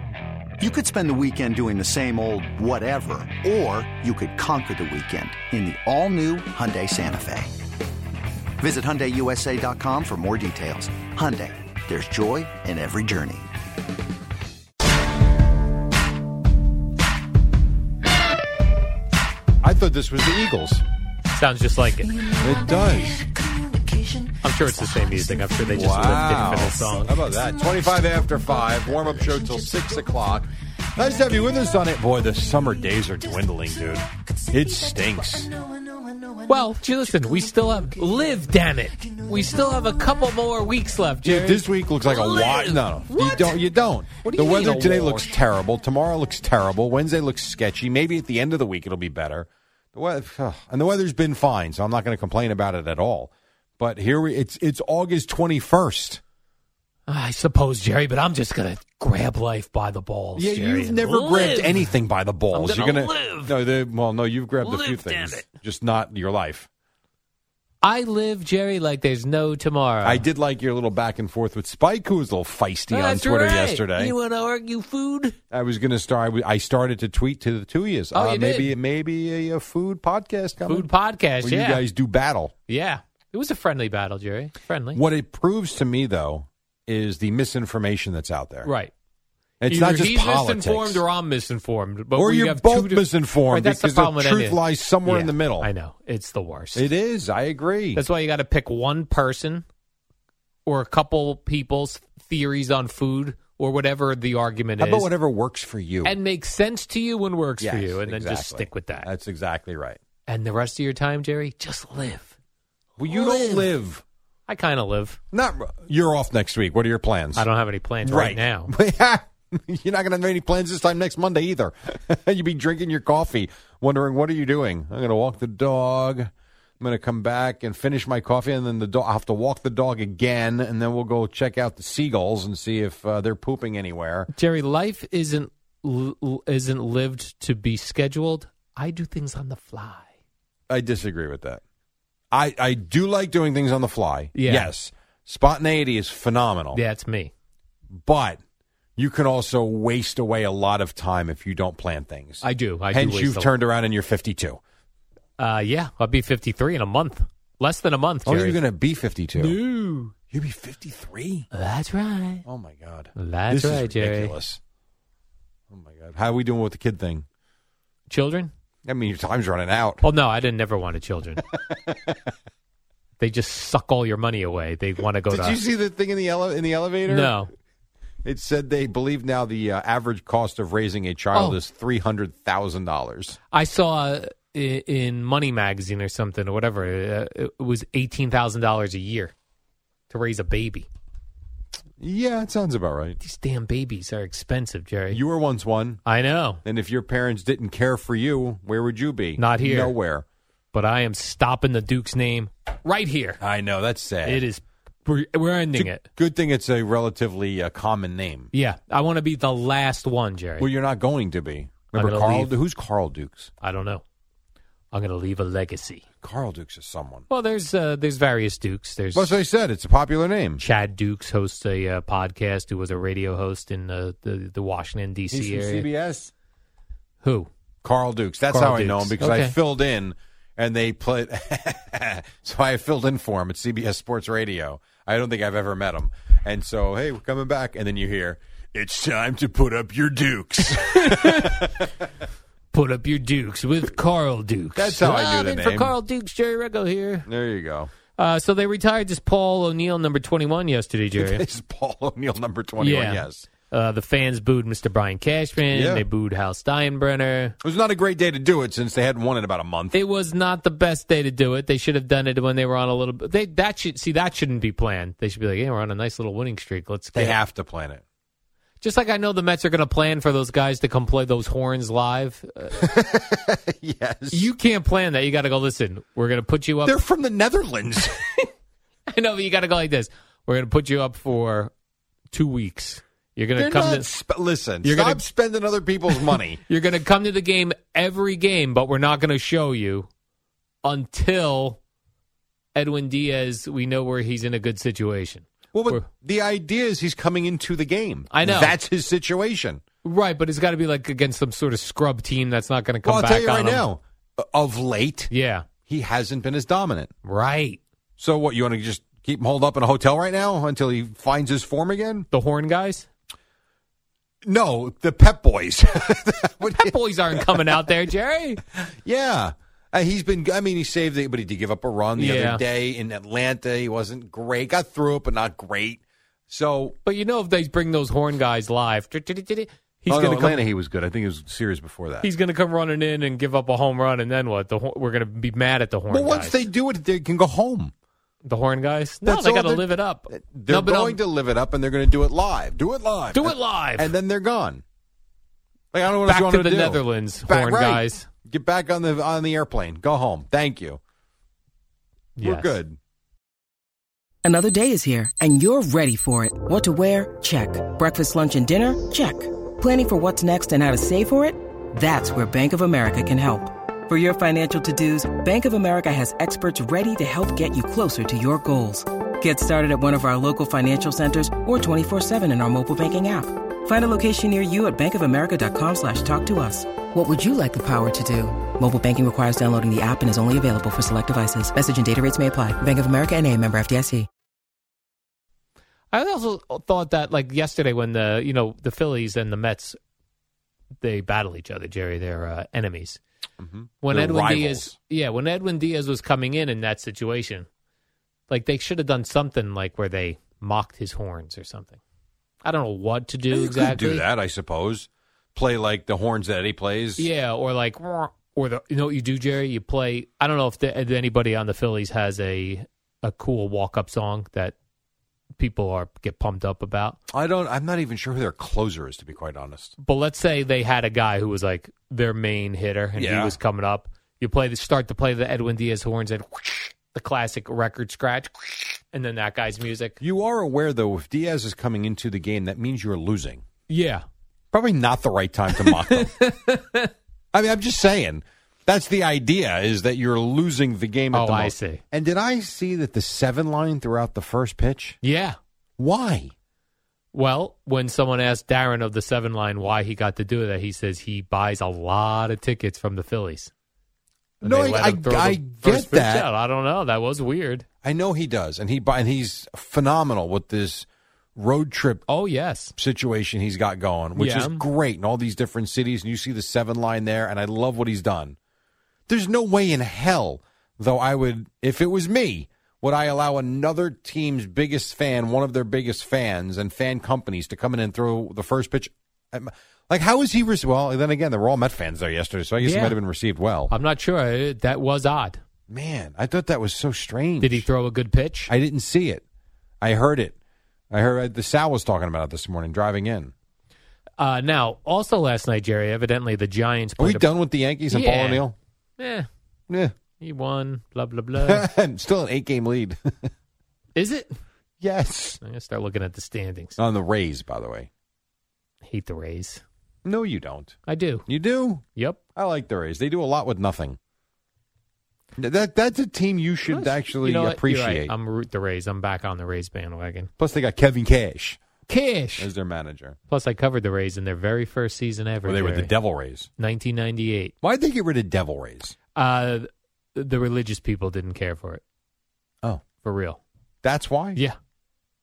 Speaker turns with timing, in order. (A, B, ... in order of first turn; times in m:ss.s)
0:00.6-0:07.5 A
0:08.6-0:13.5 A
0:19.6-0:20.8 B
0:21.3-0:22.2 C
0:22.4-0:23.2 B
0:24.4-0:27.2 C
0:25.7-0:35.5 B
0:36.4-0:43.4 C
0:41.2-0:56.2 B
0:44.2-0:45.2 C
0:57.1-1:01.9 C
1:00.4-1:06.7 B
1:02.5-1:03.5 C
1:04.6-1:05.4 C
1:07.8-1:10.3 C
1:10.0-1:14.1 B
1:12.9-1:15.4 C
1:15.5-1:20.9 B
1:18.1-1:18.7 C
1:20.6-1:21.8 C
1:21.4-1:22.5 B
1:22.7-1:25.0 C
1:24.9-1:28.7 B
1:28.6-1:28.9 C
1:29.6-1:31.0 B
1:29.7-1:36.9 C
1:32.2-1:35.7 B
1:36.8-1:38.0 B
1:38.0-1:39.6 C
1:40.7-1:45.1 C
1:44.8-1:46.2 B
1:46.0-1:49.1 C
1:47.6-1:50.0 B
1:50.3-1:52.3 C
1:53.0-1:54.0 B
1:53.0-1:53.7 C
1:54.5-1:55.2 C
1:55.3-1:57.5 B
1:57.4-1:58.7 C
1:58.0-2:06.3 B
2:06.8-2:14.3 B
2:14.3-2:20.1 C
2:20.7-2:21.6 B
2:22.3-2:26.8 B
2:24.3-2:24.7 C
2:26.7-2:27.3 C
2:28.0-2:28.4 B
2:29.0-2:34.6 B
2:32.4-2:33.5 C
2:35.4-2:38.6 C
2:38.3-2:39.6 B
2:39.4-2:40.1 C
2:40.3-2:41.5 B
2:41.5-2:42.4 C
2:42.4-2:44.6 B
2:43.2-2:44.4 C
2:45.7-2:47.2 B
2:48.1-2:48.5 C
2:48.9-2:50.0 B
2:50.0-2:51.4 C
2:51.5-2:52.1 B
2:53.2-2:55.6 C
2:55.3-2:57.4 B
2:57.1-2:57.5 C
2:58.2-3:03.4 B
3:01.3-3:01.6 C
3:03.5-3:09.3 C
3:10.1-3:10.9 C
3:12.0-3:13.2 B
3:13.2-3:15.2 C
3:15.1-3:16.0 B
3:16.0-3:16.6 C
3:16.6-3:20.2 B
3:19.4-3:20.0 C
3:20.7-3:23.4 C
3:23.4-3:24.4 B
3:24.2-3:26.1 C
3:25.7-3:28.5 B
3:28.5-3:30.7 C
3:30.6-3:33.5 B
3:31.9-3:32.6 C
3:33.6-3:34.0 C
3:34.9-3:36.0 C
3:36.2-3:37.2 B
3:37.3-3:39.3 C
3:39.2-3:40.6 B
3:40.6-3:45.9 C
3:45.3-3:46.3 B
3:47.2-3:47.5 C
3:47.8-4:02.1 B
3:48.5-3:49.6 C
4:00.9-4:01.7 C
4:02.7-4:07.3 C
4:04.8-4:06.0 B
4:07.3-4:07.9 B
4:08.2-4:11.4 C
4:11.2-4:13.5 B
4:12.8-4:17.6 C
4:15.7-4:16.0 B
4:17.6-4:20.0 B
4:19.9-4:27.4 C
4:27.2-4:28.0 B
4:28.8-4:32.9 C
4:32.8-4:34.5 B
4:34.3-4:37.0 C
4:36.8-4:38.3 B
4:39.1-4:41.7 C
4:42.3-4:44.1 C
4:43.6-4:46.6 B
4:44.8-4:45.2 C
4:46.1-4:50.1 C
4:50.8-4:51.8 C
4:52.8-4:56.0 C
4:55.7-4:59.8 B
4:58.3-4:58.8 C
5:00.0-5:03.9 C
5:03.0-5:05.3 B
5:05.3-5:05.7 C
5:05.9-5:07.1 B
5:07.2-5:07.8 C
5:08.2-5:12.3 B
5:12.3-5:13.1 C
5:14.5-5:17.8 B
5:16.7-5:18.6 C
5:18.7-5:27.0 B
5:22.2-5:22.6 C
5:27.0-5:30.7 C
5:30.1-5:32.3 B
5:32.2-5:36.6 C
5:36.1-5:37.9 B
5:38.4-5:41.2 C
5:39.2-5:44.8 B
5:43.3-5:44.1 C
5:45.9-5:51.0 B
5:46.2-5:48.3 C
5:52.4-5:52.8 C
5:52.4-5:53.0 B
5:54.4-6:24.3 D
6:26.1-6:30.0 C
6:31.0-6:33.2 C
6:33.6-6:34.9 B
6:34.0-6:37.7 C
6:38.5-6:42.0 C
6:42.6-6:44.3 C
6:43.5-6:47.3 B
6:47.2-6:54.8 C
6:55.6-6:57.2 C
6:57.3-6:59.9 B
7:00.0-7:10.2 C
7:03.2-7:03.6 B
7:10.2-7:13.6 B
7:13.9-7:14.2 C
7:14.7-7:16.4 B
7:15.7-7:17.1 C
7:17.5-7:25.2 B
7:21.3-7:22.0 C
7:25.2-7:25.6 C
7:26.0-7:26.5 B
7:27.3-7:33.7 C
7:34.6-7:37.9 C
7:34.6-7:36.5 B
7:38.0-7:42.3 B
7:42.3-7:42.9 C
7:43.0-7:48.6 B
7:44.4-7:44.9 C
7:49.3-8:03.9 B
8:02.8-8:03.2 C
8:03.9-8:05.6 C
8:05.9-8:07.9 B
8:07.6-8:08.7 C
8:08.7-8:09.4 B
8:10.0-8:10.6 B
8:11.1-8:13.5 B
8:14.4-8:17.5 C
8:17.2-8:18.8 B
8:18.1-8:18.7 C
8:19.2-8:19.5 C
8:20.4-8:21.9 C
8:21.6-8:23.5 B
8:24.2-8:24.5 C
8:25.0-8:25.6 B
8:25.6-8:27.0 C
8:27.0-8:28.1 B
8:29.0-8:29.8 C
8:30.2-8:32.0 B
8:31.1-8:31.5 C
8:32.6-8:34.2 B
8:35.6-8:38.3 B
8:36.9-8:40.5 C
8:40.6-8:41.8 B
8:42.1-8:42.7 C
8:42.6-8:43.4 B
8:43.5-8:46.1 C
8:45.6-8:46.7 B
8:46.8-8:47.7 C
8:47.8-8:49.2 B
8:49.4-8:52.0 C
8:53.2-8:53.6 C
8:54.0-8:54.6 B